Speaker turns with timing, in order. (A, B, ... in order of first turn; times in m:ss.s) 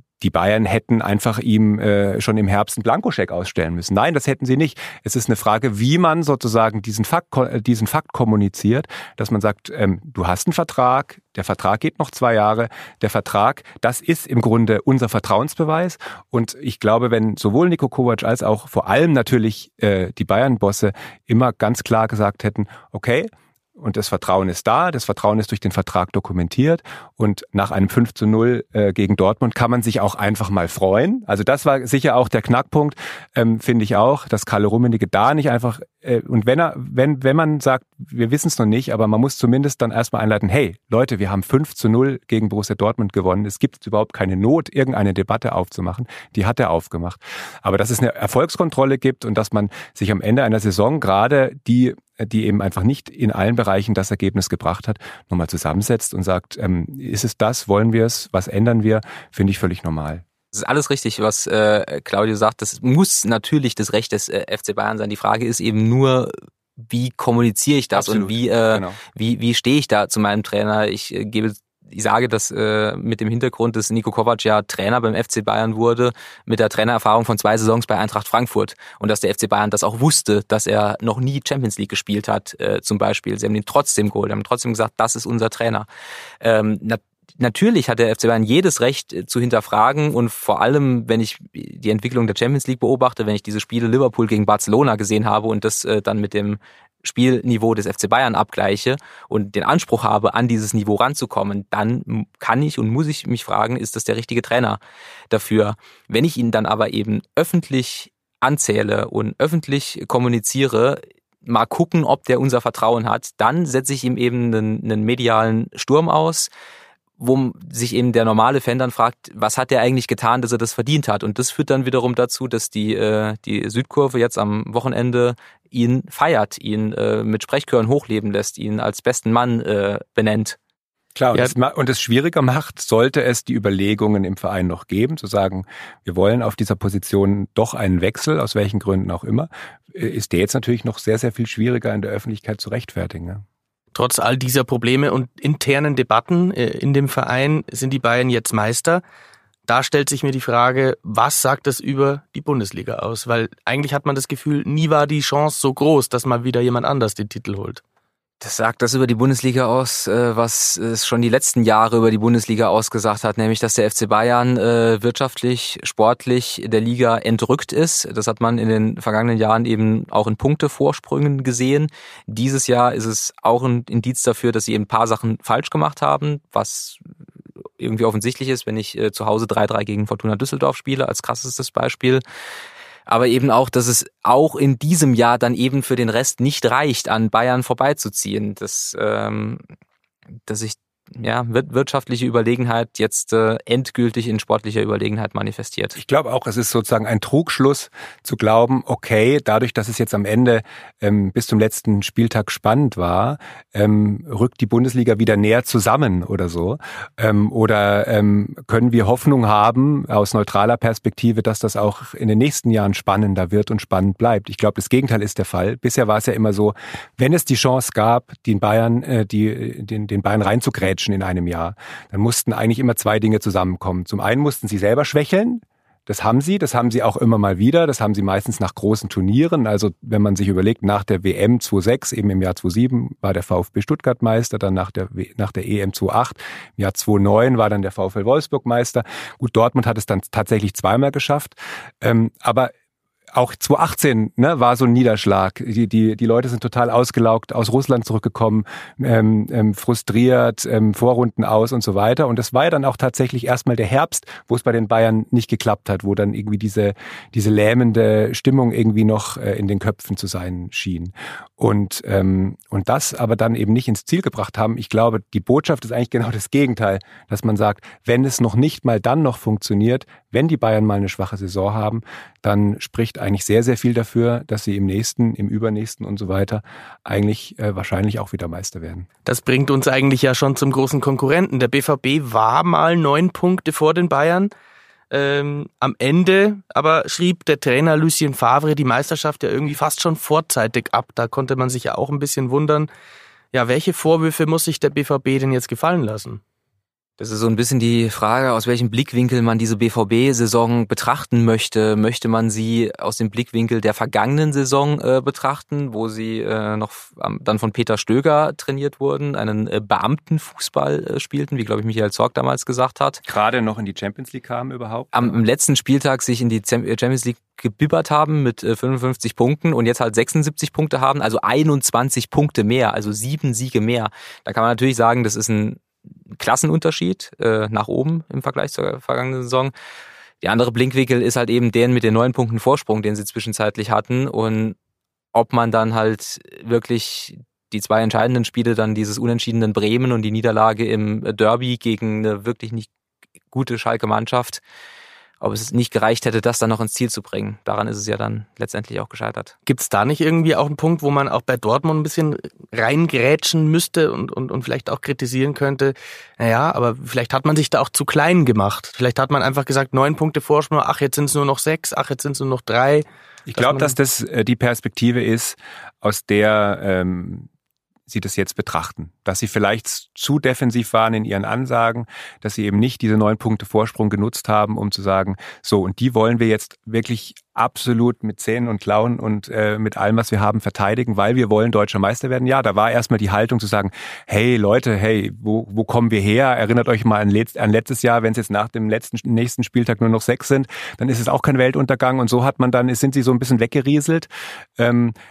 0:00.2-1:00.2 A
1:00.5-1:25.9 B
1:07.9-1:09.0 A
1:26.4-1:44.8 B
1:45.3-1:56.5 B
1:57.2-2:10.6 B
2:11.2-2:23.4 A
2:23.9-2:29.0 C
2:29.7-2:37.8 C
2:38.4-2:57.0 B
2:57.8-3:02.2 B
3:03.1-3:09.6 B
3:10.5-3:16.0 B
3:16.0-4:02.7 A
4:03.3-4:39.1 A
4:39.3-4:44.5 C
4:45.1-4:52.9 C
4:53.5-4:56.4 C
4:57.2-5:13.2 B
5:13.3-5:15.4 A
5:15.1-5:25.8 B
5:26.3-5:29.7 B
5:30.4-5:34.8 B
5:35.3-5:42.9 B
5:43.5-5:44.6 B
5:45.4-5:49.5 B
5:49.7-6:03.0 C
6:03.5-6:07.5 A
6:03.6-6:03.9 C
6:08.1-6:35.2 A